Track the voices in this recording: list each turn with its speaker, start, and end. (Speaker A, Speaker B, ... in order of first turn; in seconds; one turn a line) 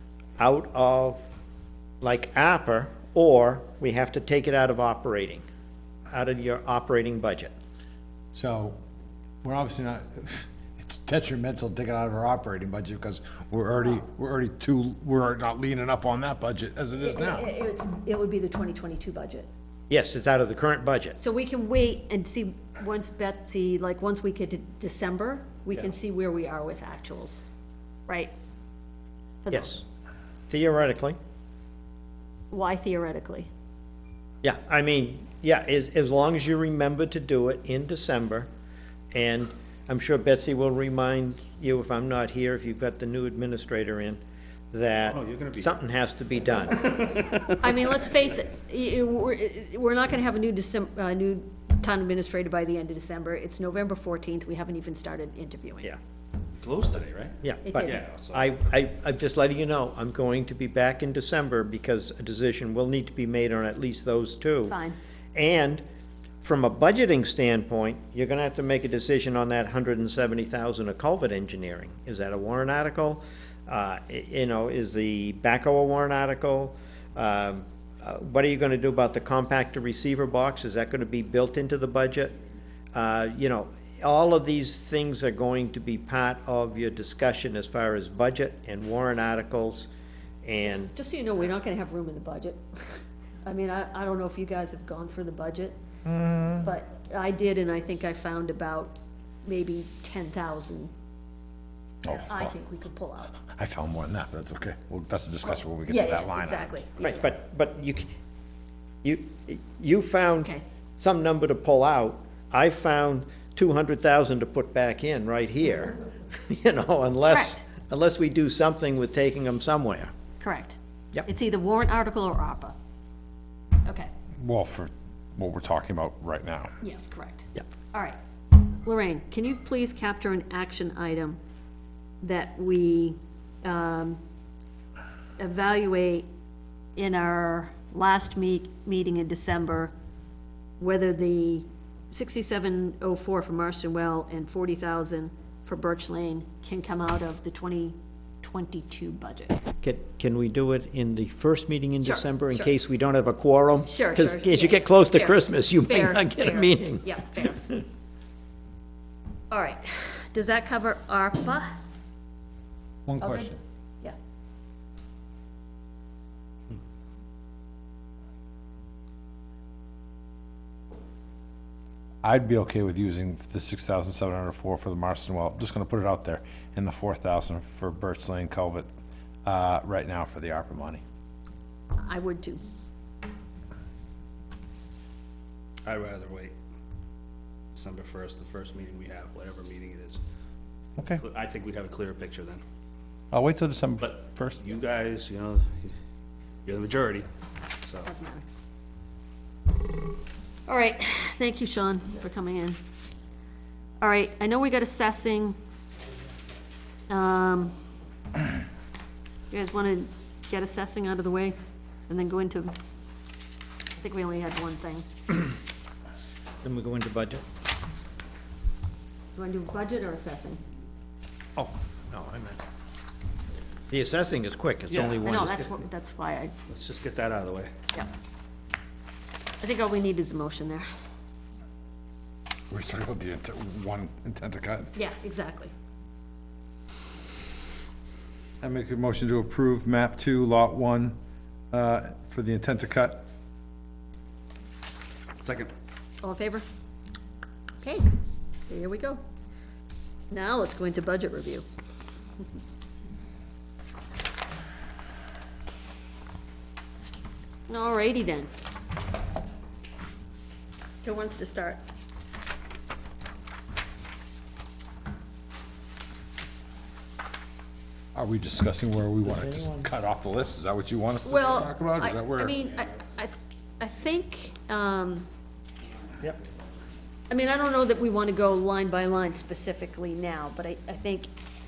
Speaker A: 0.4-1.2
Speaker A: 2.0-5.4
Speaker A: 6.1-7.5
Speaker B: 8.3-8.8
Speaker B: 9.4-17.5
Speaker C: 17.0-19.5
Speaker A: 19.9-21.2
Speaker C: 21.2-27.4
Speaker C: 28.1-28.3
Speaker C: 29.4-29.7
Speaker A: 29.5-29.8
Speaker A: 30.5-31.2
Speaker C: 32.5-33.5
Speaker A: 34.4-38.5
Speaker A: 39.1-44.2
Speaker A: 44.7-47.0
Speaker D: 45.0-45.8
Speaker D: 46.9-47.7
Speaker C: 47.6-55.9
Speaker D: 56.6-58.6
Speaker A: 57.4-57.7
Speaker C: 57.6-58.1
Speaker A: 58.3-64.8
Speaker C: 64.7-65.0
Speaker A: 65.3-65.8
Speaker A: 66.4-82.4
Speaker A: 82.9-89.9
Speaker A: 90.4-90.9
Speaker C: 90.7-95.8
Speaker A: 96.1-96.6
Speaker C: 96.6-100.9
Speaker B: 102.0-102.5
Speaker C: 102.1-103.4
Speaker B: 103.5-106.8
Speaker C: 105.9-107.3
Speaker A: 107.0-108.0
Speaker A: 109.0-120.1
Speaker C: 117.3-117.6
Speaker C: 120.4-122.8
Speaker B: 124.4-126.7
Speaker C: 126.8-131.4
Speaker C: 132.2-134.2
Speaker C: 135.4-136.3
Speaker C: 137.0-139.9
Speaker C: 140.8-149.6
Speaker A: 149.8-157.8
Speaker C: 152.0-152.7
Speaker C: 153.8-157.6
Speaker C: 159.5-161.7
Speaker B: 163.1-163.6
Speaker C: 163.2-164.2
Speaker B: 172.2-178.9
Speaker B: 179.4-181.0
Speaker C: 182.0-182.6
Speaker D: 185.8-186.6
Speaker D: 187.7-190.2
Speaker D: 191.0-192.6
Speaker B: 193.3-194.7
Speaker D: 194.0-195.9
Speaker D: 196.7-197.3
Speaker D: 197.8-198.1
Speaker C: 198.0-198.4
Speaker C: 200.7-202.8
Speaker C: 204.0-205.6
Speaker C: 207.1-207.8
Speaker C: 209.5-211.6
Speaker C: 212.1-212.7
Speaker C: 214.0-215.1
Speaker A: 216.6-217.4
Speaker C: 219.3-220.6
Speaker A: 221.6-222.6
Speaker A: 223.9-225.4
Speaker D: 224.9-225.9
Speaker C: 225.2-226.5
Speaker D: 226.7-227.7
Speaker C: 229.6-230.9
Speaker B: 232.7-234.9
Speaker C: 234.9-235.7
Speaker B: 238.6-241.2
Speaker B: 241.7-243.3
Speaker D: 245.4-245.7
Speaker C: 246.2-246.7
Speaker C: 247.8-248.1
Speaker C: 248.7-249.2
Speaker C: 250.3-251.7
Speaker C: 257.7-258.5
Speaker C: 261.0-261.8
Speaker B: 268.1-272.6
Speaker A: 269.3-269.9
Speaker C: 271.3-275.3
Speaker C: 277.3-281.3